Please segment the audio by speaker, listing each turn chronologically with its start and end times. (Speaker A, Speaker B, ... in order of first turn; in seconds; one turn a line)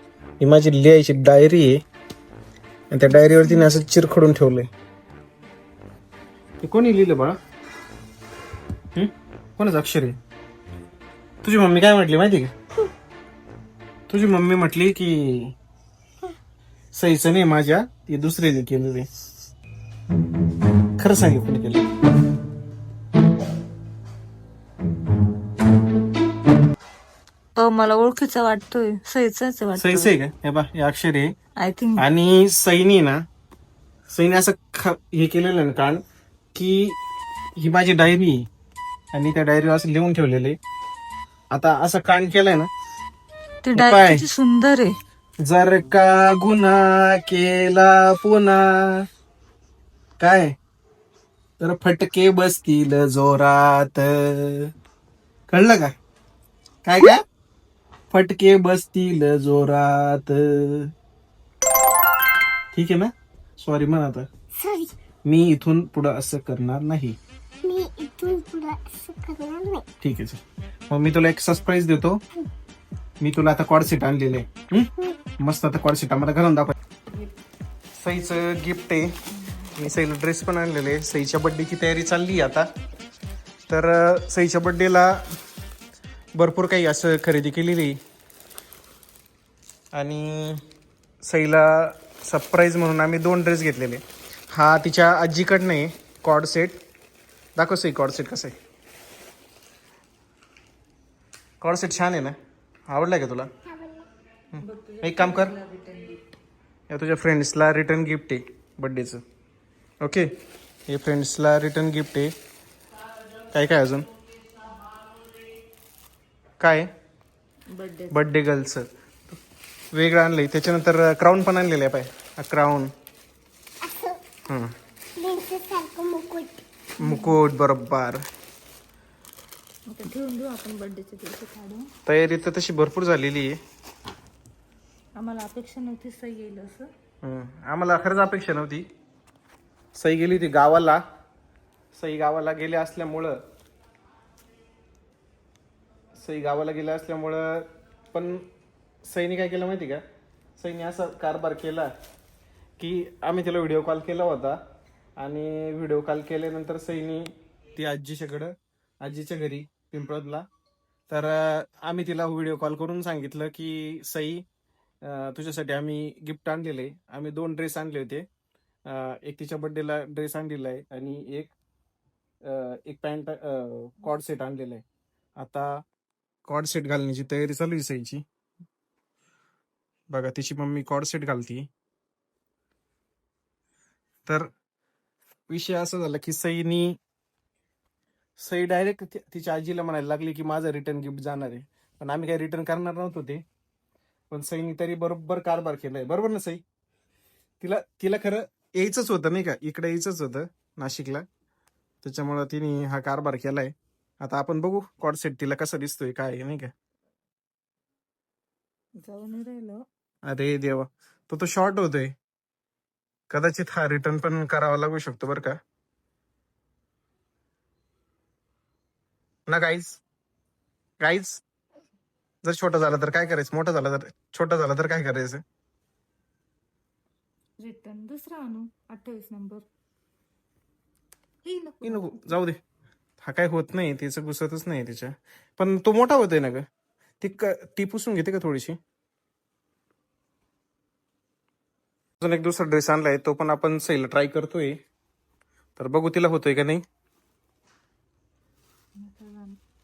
Speaker A: 0.4-1.8
Speaker A: 2.9-4.7
Speaker B: 3.3-3.7
Speaker A: 6.6-7.4
Speaker A: 8.9-10.2
Speaker A: 11.4-12.5
Speaker A: 14.1-15.6
Speaker A: 16.9-19.1
Speaker A: 21.0-21.9
Speaker B: 27.6-30.1
Speaker A: 29.8-31.4
Speaker B: 31.6-32.0
Speaker A: 32.0-33.2
Speaker A: 34.1-36.0
Speaker A: 36.5-37.0
Speaker A: 37.6-38.5
Speaker A: 39.1-40.6
Speaker A: 41.5-42.7
Speaker B: 43.6-45.0
Speaker A: 43.7-44.2
Speaker A: 45.4-49.1
Speaker A: 50.2-50.5
Speaker A: 51.6-54.7
Speaker A: 55.5-55.9
Speaker A: 56.8-57.2
Speaker A: 58.1-60.9
Speaker A: 62.7-64.3
Speaker C: 64.5-64.9
Speaker A: 65.2-67.2
Speaker C: 67.6-69.8
Speaker A: 70.0-72.2
Speaker A: 73.2-76.7
Speaker A: 78.0-79.2
Speaker A: 79.8-82.7
Speaker A: 83.7-85.2
Speaker A: 86.3-88.0
Speaker A: 89.9-90.6
Speaker A: 91.2-96.8
Speaker A: 97.6-98.5
Speaker A: 101.6-102.4
Speaker A: 102.9-103.5
Speaker C: 103.7-104.1
Speaker A: 104.5-105.6
Speaker B: 104.6-106.2
Speaker A: 106.9-109.2
Speaker A: 110.0-110.3
Speaker A: 110.9-112.3
Speaker A: 113.5-114.1
Speaker A: 116.6-116.9
Speaker B: 117.7-118.2
Speaker A: 118.1-119.4
Speaker A: 119.9-122.9
Speaker C: 123.8-124.2
Speaker A: 124.5-124.7
Speaker C: 125.2-126.6
Speaker A: 127.0-128.2
Speaker B: 127.0-127.4
Speaker B: 129.9-131.9
Speaker A: 132.1-133.6
Speaker B: 135.2-136.9
Speaker A: 137.2-138.9
Speaker A: 140.0-141.0
Speaker A: 141.9-143.4
Speaker A: 146.2-148.4
Speaker A: 149.1-150.0
Speaker A: 150.6-151.9
Speaker A: 152.8-154.6
Speaker A: 155.2-160.4
Speaker A: 161.1-164.4
Speaker A: 165.0-168.2
Speaker A: 168.9-171.5
Speaker A: 172.4-174.8
Speaker A: 175.4-175.8
Speaker A: 176.5-178.2
Speaker A: 180.1-181.7
Speaker A: 185.5-187.0
Speaker A: 188.4-193.4
Speaker A: 194.3-196.6
Speaker A: 197.6-201.2
Speaker A: 202.0-206.7
Speaker B: 209.0-209.8
Speaker A: 210.3-212.1
Speaker A: 213.3-215.6
Speaker A: 219.5-220.0
Speaker A: 221.0-221.4
Speaker A: 222.4-225.4
Speaker B: 227.6-229.7
Speaker B: 231.4-232.4
Speaker A: 231.8-232.6
Speaker A: 233.2-236.6
Speaker A: 237.2-238.8
Speaker A: 242.2-244.8
Speaker A: 245.8-246.8
Speaker B: 249.0-249.6